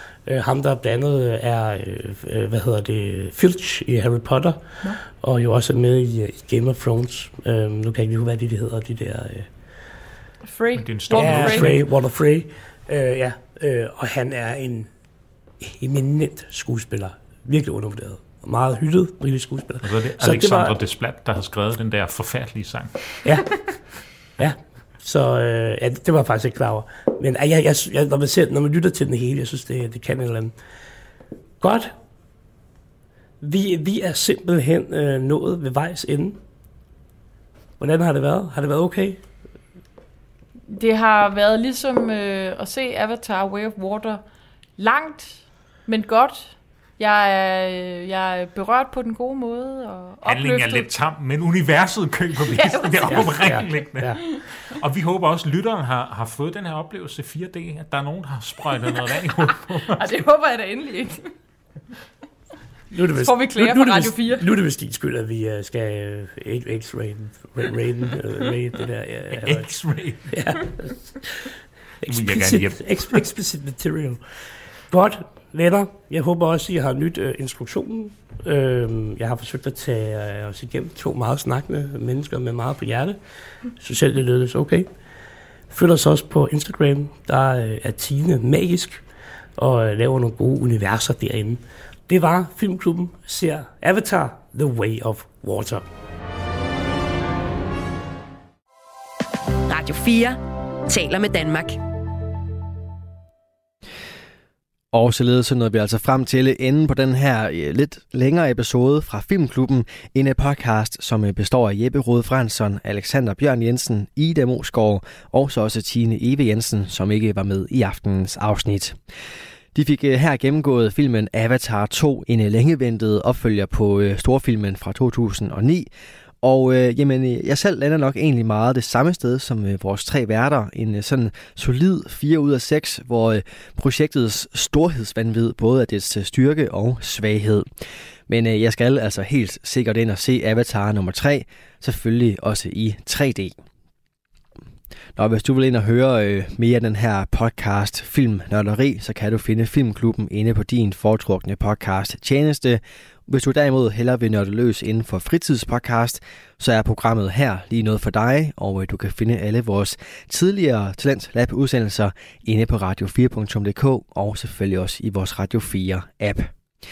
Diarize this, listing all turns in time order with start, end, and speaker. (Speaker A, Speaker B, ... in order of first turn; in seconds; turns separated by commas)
Speaker A: 0.3-9.5, Speaker B: 10.4-11.8, Speaker C: 10.8-11.8, Speaker A: 11.1-14.9, Speaker A: 15.6-20.7, Speaker C: 19.8-23.0, Speaker A: 23.2-23.5, Speaker A: 24.4-30.5, Speaker A: 31.6-31.9, Speaker A: 33.4-36.4, Speaker A: 37.8-39.2, Speaker B: 40.7-44.2, Speaker B: 44.8-50.9, Speaker C: 50.2-60.1, Speaker B: 52.5-53.7, Speaker A: 53.1-54.2, Speaker B: 59.5-61.3, Speaker A: 62.9-69.7, Speaker B: 63.1-64.5, Speaker C: 69.3-70.4, Speaker A: 70.3-71.5, Speaker A: 72.0-74.2, Speaker C: 72.1-73.2, Speaker A: 74.9-83.2, Speaker A: 83.8-84.9, Speaker A: 85.7-89.0, Speaker A: 89.6-95.8, Speaker D: 99.7-101.8, Speaker E: 104.9-119.0, Speaker E: 119.7-125.9, Speaker E: 126.4-137.7, Speaker E: 138.3-143.6, Speaker E: 145.2-166.5